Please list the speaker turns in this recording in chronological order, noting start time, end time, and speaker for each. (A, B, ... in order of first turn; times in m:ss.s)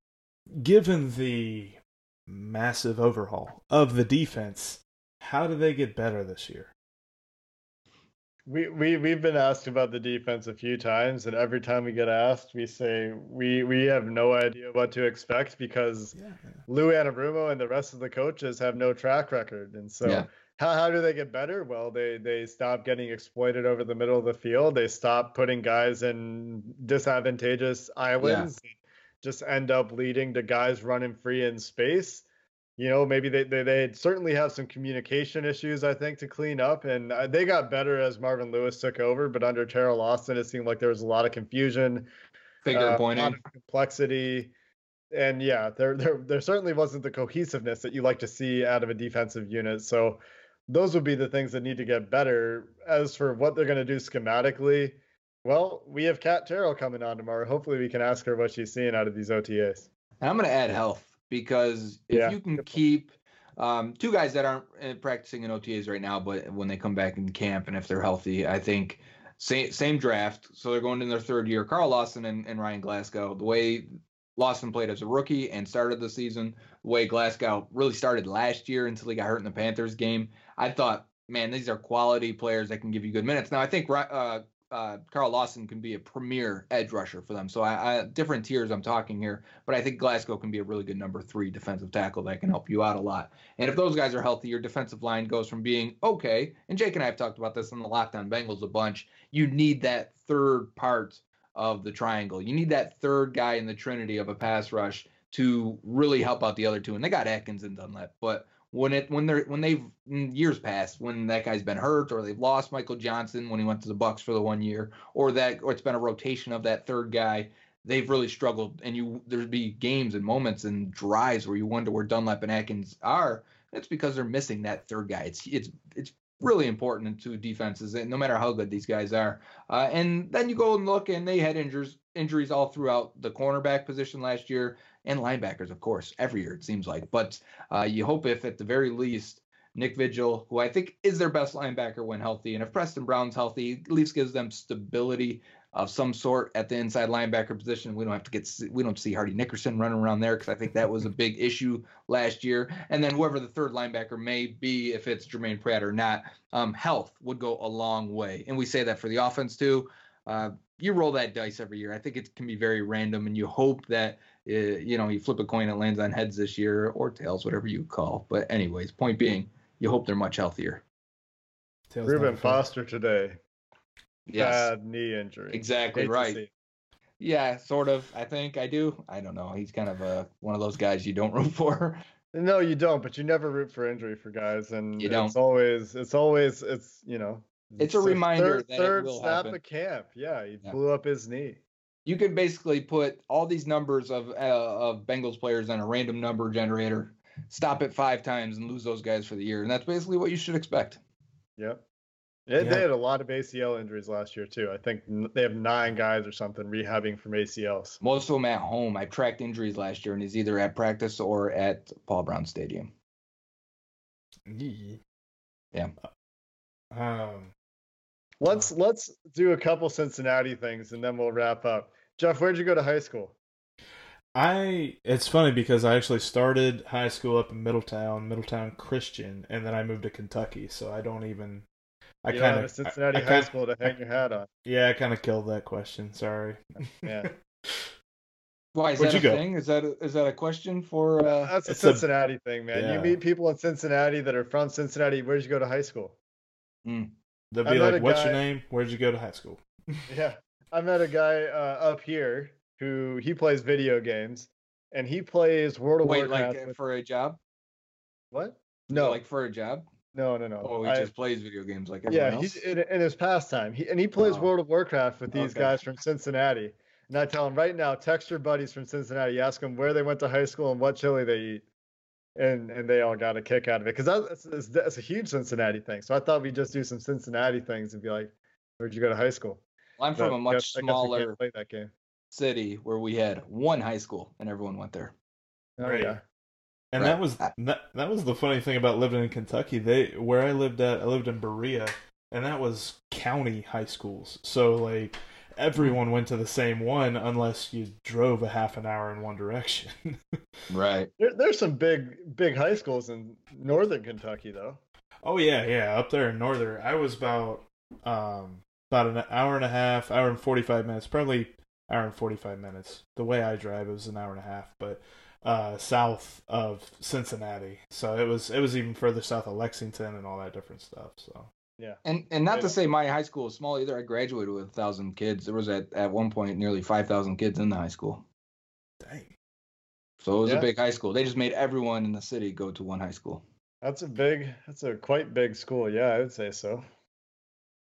0:00.6-0:06.7 A
0:08.5-0:16.1 B
0:16.2-0:16.6 A
0:16.7-0:32.3 B
0:28.2-0:28.5 C
0:32.8-0:42.1 B
0:42.6-0:43.4 C
0:42.7-0:44.5 B
0:45.1-0:59.9 B
1:00.2-2:50.8 C
1:02.1-1:02.8 B
2:51.9-2:52.6 A
2:52.1-2:53.4 B
2:54.3-2:54.7 C
2:54.4-2:56.5 B
2:55.5-2:56.4 C
2:57.2-3:02.0 C
3:02.3-3:11.6 B
3:05.0-3:05.4 C
3:07.8-3:09.6 C
3:12.1-3:21.0 C
3:21.6-3:21.8 B
3:22.5-3:28.0 B
3:22.6-3:22.9 A
3:28.0-3:32.9 C
3:34.5-3:35.0 A
3:36.9-3:37.5 A
3:38.4-3:43.4 B
3:44.4-3:51.7 A
3:52.2-3:53.5 A
3:52.3-3:54.5 B
3:54.7-3:57.9 A
3:57.0-3:57.3 B
3:58.7-4:01.5 C
3:59.0-3:59.4 A
4:01.2-4:06.2 B
4:01.7-4:02.1 A
4:02.7-4:03.2 A
4:06.8-4:07.1 C
4:07.5-4:10.1 A
4:07.6-4:08.4 B
4:10.1-4:16.8 B
4:16.0-4:17.4 C
4:18.3-4:19.2 B
4:18.9-4:19.8 C
4:20.1-4:21.1 B
4:20.6-4:22.6 C
4:22.1-4:31.6 B
4:24.2-4:24.5 C
4:25.3-4:25.8 C
4:32.4-4:39.6 B
4:40.0-4:41.4 C
4:40.2-4:41.9 B
4:42.3-4:45.1 C
4:45.8-4:46.2 B
4:45.8-4:46.2 A
4:46.9-5:00.4 A
4:47.0-4:47.5 C
5:00.7-5:01.1 C
5:01.2-5:04.8 B
5:05.2-5:21.5 A
5:22.0-5:28.2 C
5:29.0-5:29.3 A
5:30.2-5:33.4 C
5:33.8-5:36.8 B